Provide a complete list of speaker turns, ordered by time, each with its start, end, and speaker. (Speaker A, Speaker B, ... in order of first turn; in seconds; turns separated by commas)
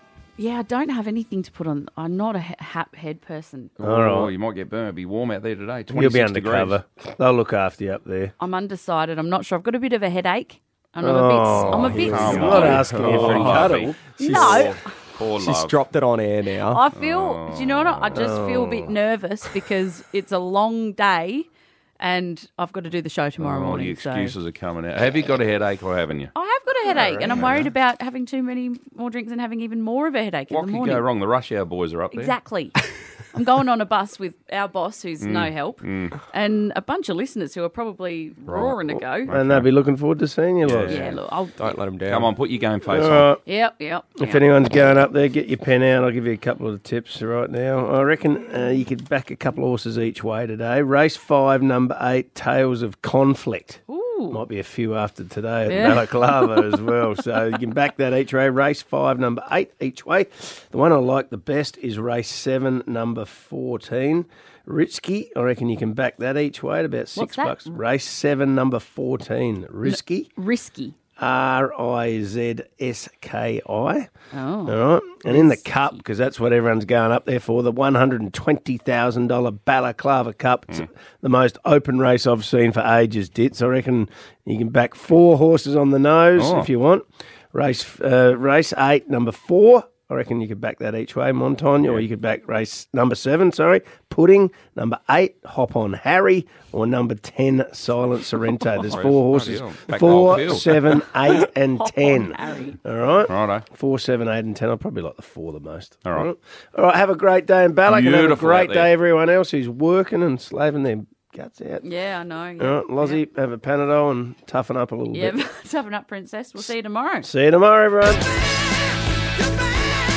Speaker A: 0.4-3.7, Speaker B: 3.8-6.8, Speaker C: 3.8-4.3, Speaker C: 5.9-8.3, Speaker A: 8.4-12.8, Speaker C: 11.0-14.0, Speaker D: 11.7-14.8, Speaker B: 11.8-15.8, Speaker A: 14.2-14.9, Speaker D: 15.4-16.8, Speaker A: 16.5-21.5, Speaker B: 16.9-18.3, Speaker C: 18.1-18.9, Speaker A: 22.0-24.4, Speaker B: 23.4-26.3, Speaker A: 26.3-31.1, Speaker C: 26.9-27.7, Speaker B: 27.3-27.6, Speaker B: 30.5-32.4, Speaker A: 32.1-32.8, Speaker A: 33.3-39.3, Speaker B: 35.2-36.1, Speaker B: 38.5-39.7, Speaker C: 39.3-40.9, Speaker B: 40.6-41.0, Speaker D: 40.7-42.3, Speaker A: 40.9-41.8, Speaker B: 42.1-43.3, Speaker C: 42.9-43.4, Speaker A: 43.5-44.5, Speaker C: 44.2-70.3, Speaker A: 53.9-54.4, Speaker A: 55.7-56.8, Speaker A: 67.2-67.8, Speaker A: 69.8-71.0, Speaker C: 71.2-74.1, Speaker A: 74.3-76.0, Speaker C: 74.7-111.8, Speaker B: 86.4-86.7, Speaker B: 91.8-92.1, Speaker B: 98.8-101.0, Speaker A: 101.8-102.8, Speaker B: 103.3-103.7, Speaker B: 107.9-108.9, Speaker A: 111.8-113.2, Speaker C: 112.6-115.4, Speaker A: 115.1-117.3, Speaker C: 117.2-118.4